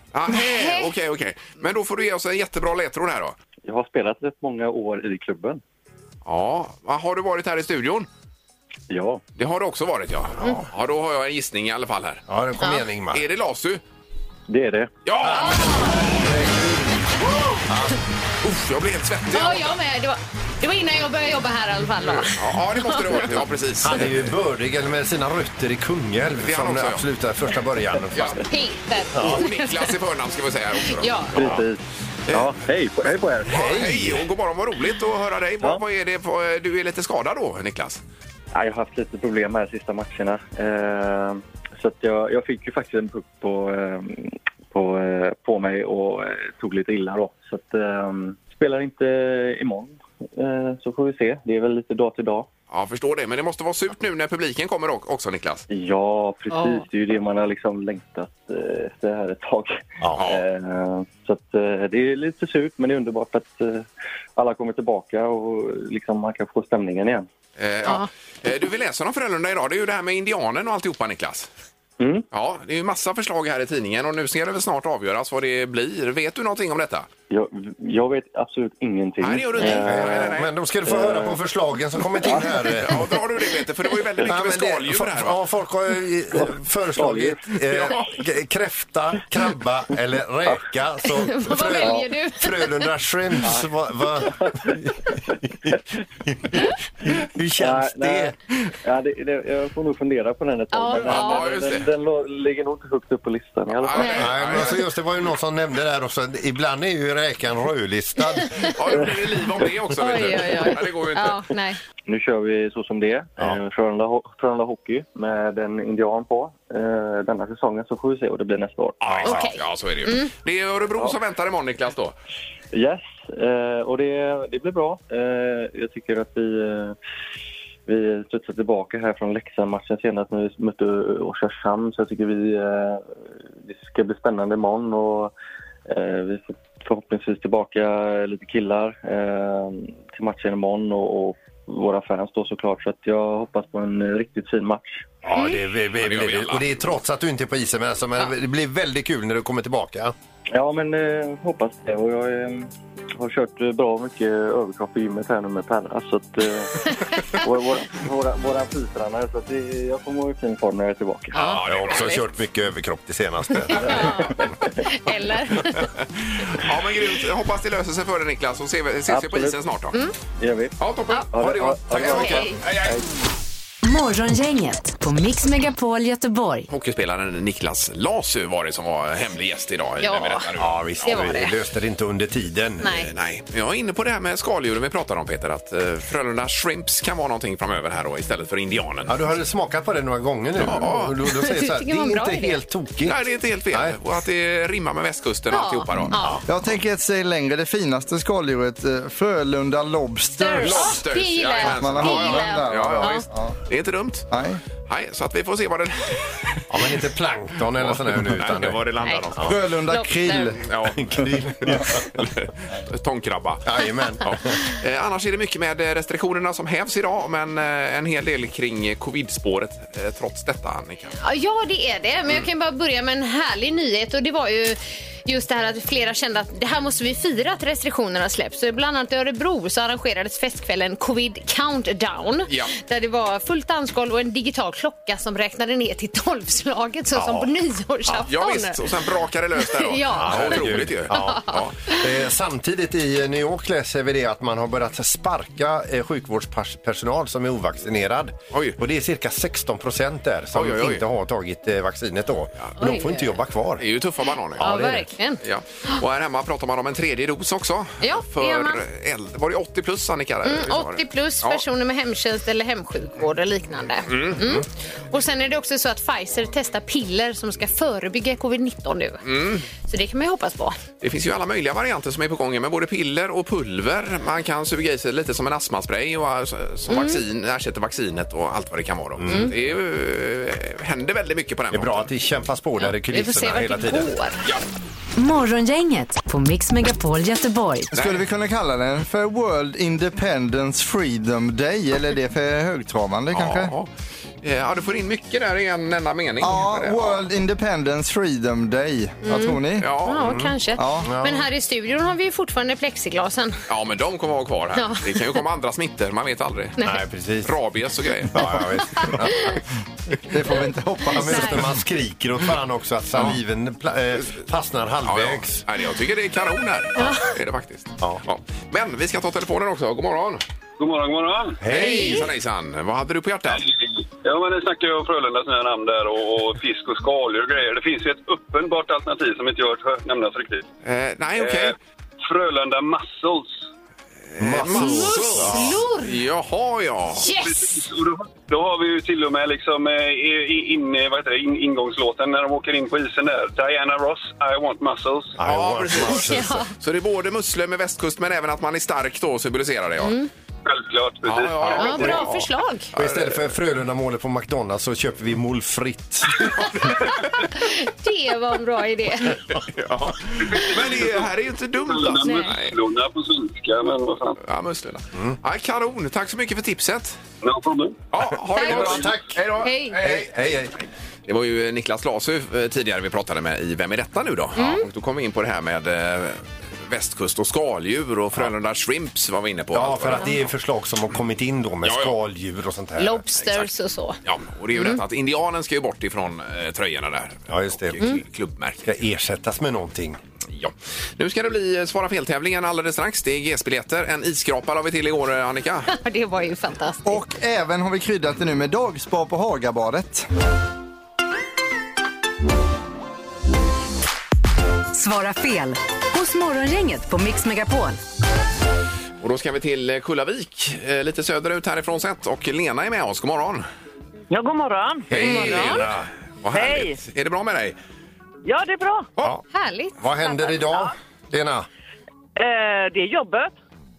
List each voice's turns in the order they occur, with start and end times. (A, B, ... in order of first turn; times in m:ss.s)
0:00.1-0:03.4 A
0:00.3-0:00.9 B
0:03.6-0:05.6 C
0:06.2-0:08.1 A
0:08.9-0:09.2 C
0:09.4-0:12.2 A
0:12.3-0:13.2 D
0:13.1-0:13.8 A
0:14.5-0:14.9 C
0:15.0-0:16.0 A
0:15.2-0:16.7 D
0:15.4-0:16.0 B
0:17.7-0:18.0 D
0:18.4-0:19.8 A
0:19.3-0:22.4 B
0:22.0-0:24.3 A
0:22.9-0:23.2 B
0:23.8-0:28.4 D
0:26.4-0:27.0 A
0:28.1-0:28.4 A
0:28.5-0:29.9 B
0:29.2-0:31.6 A
0:30.9-0:31.4 B
0:31.4-0:33.6 C
0:33.4-0:34.2 D
0:33.4-0:38.0 A
0:38.5-0:52.5 C
0:52.7-0:55.6 A
0:55.7-1:07.3 C
0:56.5-0:56.8 B
1:00.2-1:00.4 A
1:07.6-1:11.5 A
1:12.0-1:12.2 C
1:12.3-1:17.1 A
1:17.3-1:20.3 C
1:19.2-1:20.5 A
1:19.6-1:23.1 D
1:20.8-1:21.4 C
1:22.2-1:22.6 C
1:22.7-1:25.4 A
1:24.2-1:34.9 D
1:26.3-1:27.5 C
1:27.7-1:28.0 A
1:31.0-1:32.9 B
1:31.8-1:32.0 C
1:33.4-1:35.8 C
1:35.4-1:38.4 D
1:37.6-1:38.3 C
1:38.8-1:44.3 C
1:40.7-1:41.5 B
1:41.0-1:41.9 A
1:43.8-1:44.8 A
1:44.0-1:44.3 B
1:44.0-1:48.5 D
1:48.3-1:48.7 B
1:48.8-1:51.4 A
1:50.0-1:51.8 B
1:52.1-1:59.0 C
1:59.0-2:02.1 A
1:59.0-1:59.4 D
1:59.2-2:00.3 B
2:02.7-2:07.0 C
2:07.9-2:15.3 C
2:15.9-2:25.1 C
2:25.2-2:30.1 D
2:26.0-2:26.7 A
2:30.5-2:41.4 C
2:41.3-2:42.2 A
2:41.4-2:42.3 B
2:41.6-2:44.2 D
2:43.7-2:45.8 B
2:43.8-2:44.7 C
2:46.4-2:50.0 A
2:49.1-2:49.6 C
2:50.4-2:50.8 C
2:50.8-2:52.9 A
2:51.3-2:53.1 C
2:52.0-2:52.4 D
2:52.0-2:52.6 B
2:53.8-2:56.7 E
2:56.7-3:01.1 A
3:00.0-3:00.5 B
3:00.6-3:02.9 D
3:01.0-3:01.5 B
3:02.8-3:03.1 B
3:02.9-3:09.2 A
3:09.0-3:13.2 D
3:10.6-3:11.2 A
3:11.3-3:12.6 B
3:13.0-3:16.2 A
3:13.7-3:14.0 D
3:15.5-3:16.4 B
3:16.1-3:16.4 D
3:16.5-3:21.0 F
3:20.4-3:23.2 B
3:20.6-3:24.3 A
3:21.6-3:23.6 F
3:24.3-3:24.6 F
3:24.8-3:26.6 A
3:26.7-3:28.8 D
3:27.8-3:29.5 A
3:29.4-3:30.6 F
3:29.9-3:30.6 B
3:30.6-3:31.1 A
3:30.8-3:32.0 D
3:31.6-3:41.1 A
3:33.6-3:34.5 D
3:41.2-3:58.8 B
3:57.1-3:57.5 D
3:58.1-4:01.7 A
3:59.6-4:02.0 B
4:00.2-4:13.8 D
4:08.5-4:08.8 A
4:10.5-4:11.0 A
4:12.8-4:13.4 B
4:13.8-4:14.6 A
4:14.6-4:15.1 D
4:14.6-4:16.0 B
4:15.4-4:21.6 A
4:18.0-4:18.8 B
4:20.4-4:30.8 B
4:24.1-4:24.6 A
4:29.2-4:29.7 A
4:31.0-4:42.1 A
4:36.9-4:37.2 B
4:39.2-4:39.5 D
4:41.7-4:44.1 D
4:42.8-4:44.4 B
4:45.2-4:47.9 E
4:47.9-4:48.2 A
4:47.9-4:53.7 F
4:53.3-4:53.9 A
4:54.4-4:57.2 A
4:56.4-4:59.9 F
4:59.2-5:03.6 B
4:59.8-5:00.2 A
5:00.1-5:01.5 D
5:00.8-5:01.1 F
5:03.7-5:06.8 A
5:04.8-5:05.4 B
5:06.8-5:07.5 D
5:07.4-5:08.5 A
5:08.3-5:09.6 D
5:08.4-5:09.6 B
5:10.3-5:11.7 F
5:11.1-5:15.6 D
5:11.1-5:11.6 B
5:15.0-5:20.4 A
5:17.0-5:17.3 B
5:20.8-5:21.6 G
5:21.6-5:22.3 D
5:21.7-5:22.2 B
5:21.7-5:23.6 A
5:23.5-5:30.6 G
5:30.8-5:31.7 A
5:31.4-5:33.7 G
5:34.3-5:37.3 A
5:34.4-5:35.8 D
5:34.6-5:36.2 B
5:37.2-5:37.7 B
5:37.3-5:45.4 G
5:45.4-5:46.7 D
5:45.4-5:50.1 A
5:46.2-5:46.7 B
5:50.0-5:50.3 B
5:50.6-5:52.1 G
5:51.2-5:53.5 A
5:51.7-5:52.9 B
5:52.0-5:52.4 D
5:52.9-5:56.5 D
5:56.6-5:57.1 A
5:57.5-5:59.4 B
5:59.5-6:02.8 A
6:00.4-6:01.3 G
6:01.8-6:04.4 G
6:02.2-6:02.5 B
6:04.4-6:07.2 A
6:07.4-6:08.0 G
6:08.1-6:10.7 A
6:08.5-6:09.4 D
6:08.5-6:10.0 B
6:09.9-6:10.7 D
6:11.2-6:20.5 A
6:14.6-6:14.8 B
6:19.7-6:23.2 D
6:21.8-6:22.1 A
6:23.0-6:24.2 B
6:23.4-6:23.7 A
6:24.2-6:28.9 A
6:24.7-6:25.0 B
6:27.5-6:28.0 D
6:28.8-6:30.2 D
6:30.5-6:35.9 A
6:35.9-6:37.2 B
6:37.0-6:40.3 F
6:44.9-6:48.0 E
6:49.2-6:53.6 A
6:54.3-6:55.1 H
6:55.1-6:56.1 D
6:55.1-6:57.8 A
6:55.2-6:55.8 B
6:56.5-6:57.0 H
6:58.4-6:59.1 H
6:59.5-7:00.6 B
7:00.0-7:01.7 D
7:02.4-7:03.5 H